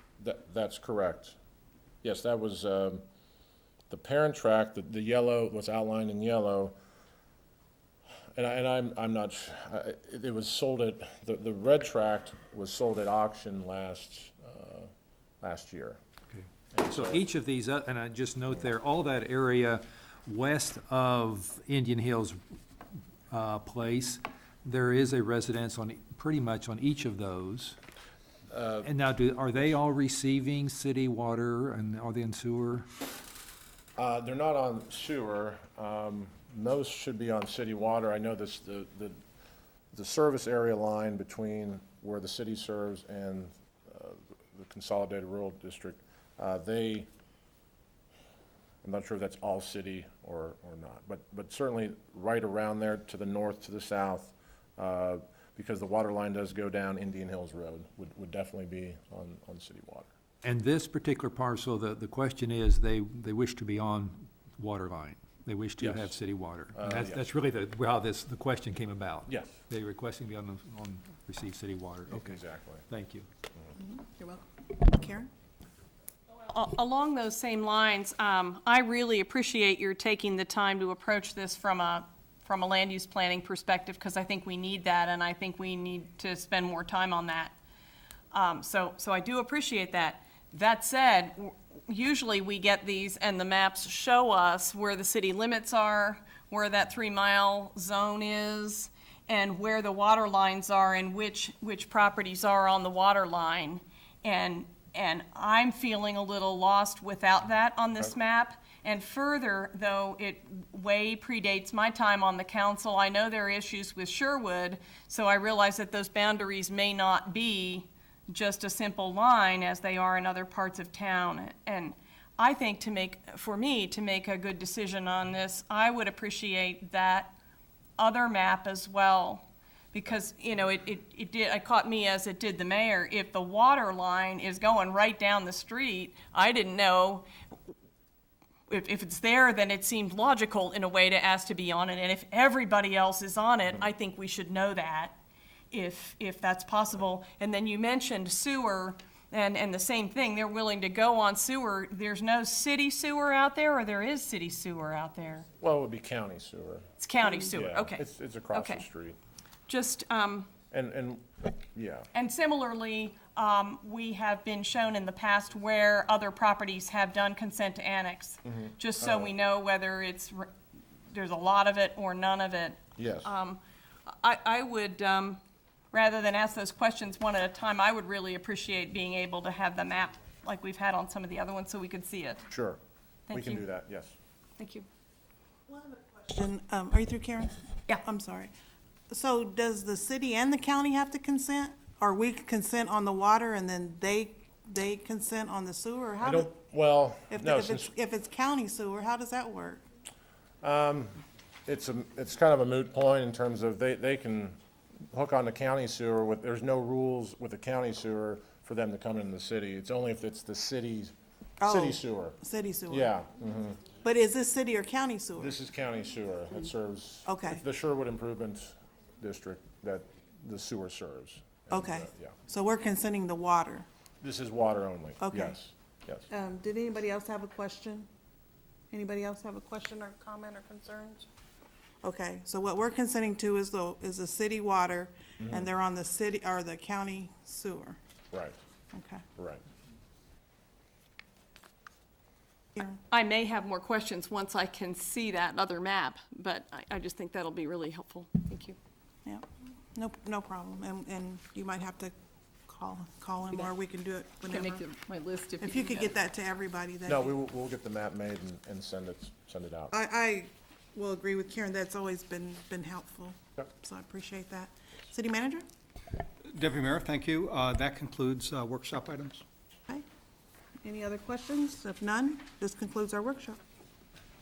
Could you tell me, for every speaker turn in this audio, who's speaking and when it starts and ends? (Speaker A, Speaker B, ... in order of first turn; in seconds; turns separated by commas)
Speaker A: 0.2-1.4, Speaker A: 2.0-3.0, Speaker A: 3.9-6.8, Speaker A: 8.3-14.9, Speaker A: 15.4-16.0, Speaker B: 16.3-22.4, Speaker A: 16.7-17.2, Speaker B: 23.3-27.8, Speaker A: 28.5-28.9, Speaker B: 28.8-32.9, Speaker A: 34.0-39.2, Speaker A: 39.9-47.1, Speaker A: 48.8-60.1, Speaker B: 60.4-73.3, Speaker A: 65.8-66.1, Speaker A: 66.8-67.3, Speaker A: 69.3-69.5, Speaker A: 72.1-72.8, Speaker C: 73.8-75.3, Speaker D: 76.5-87.6, Speaker D: 88.3-127.4, Speaker D: 128.0-137.3, Speaker D: 138.7-145.2, Speaker D: 145.7-155.5, Speaker A: 155.6-156.9, Speaker D: 157.0-158.9, Speaker A: 157.4-159.2, Speaker D: 159.7-160.5, Speaker A: 160.7-162.1, Speaker D: 162.1-170.5, Speaker A: 168.5-169.3, Speaker D: 171.1-175.4, Speaker A: 173.0-173.3, Speaker D: 175.9-182.5, Speaker A: 182.5-182.8, Speaker D: 183.3-183.6, Speaker A: 183.3-184.2, Speaker D: 184.6-184.9, Speaker C: 185.7-188.5, Speaker C: 189.1-196.5, Speaker A: 196.2-197.9, Speaker C: 197.3-199.8, Speaker A: 200.6-204.6, Speaker A: 205.1-212.4, Speaker C: 211.6-213.1, Speaker A: 212.9-213.8, Speaker C: 213.9-215.5, Speaker A: 215.4-222.3, Speaker C: 217.3-217.6, Speaker C: 221.7-223.9, Speaker A: 224.2-226.3, Speaker C: 225.2-225.6, Speaker C: 226.3-228.1, Speaker C: 228.9-231.3, Speaker C: 232.0-238.0, Speaker A: 235.4-235.7, Speaker A: 238.3-238.6, Speaker C: 238.9-239.2, Speaker A: 239.4-239.6, Speaker D: 242.8-248.8, Speaker C: 249.2-252.1, Speaker C: 252.7-254.8, Speaker D: 254.5-256.2, Speaker C: 255.6-257.3, Speaker A: 257.1-259.9, Speaker C: 259.9-265.6, Speaker E: 266.4-269.4, Speaker C: 270.8-273.6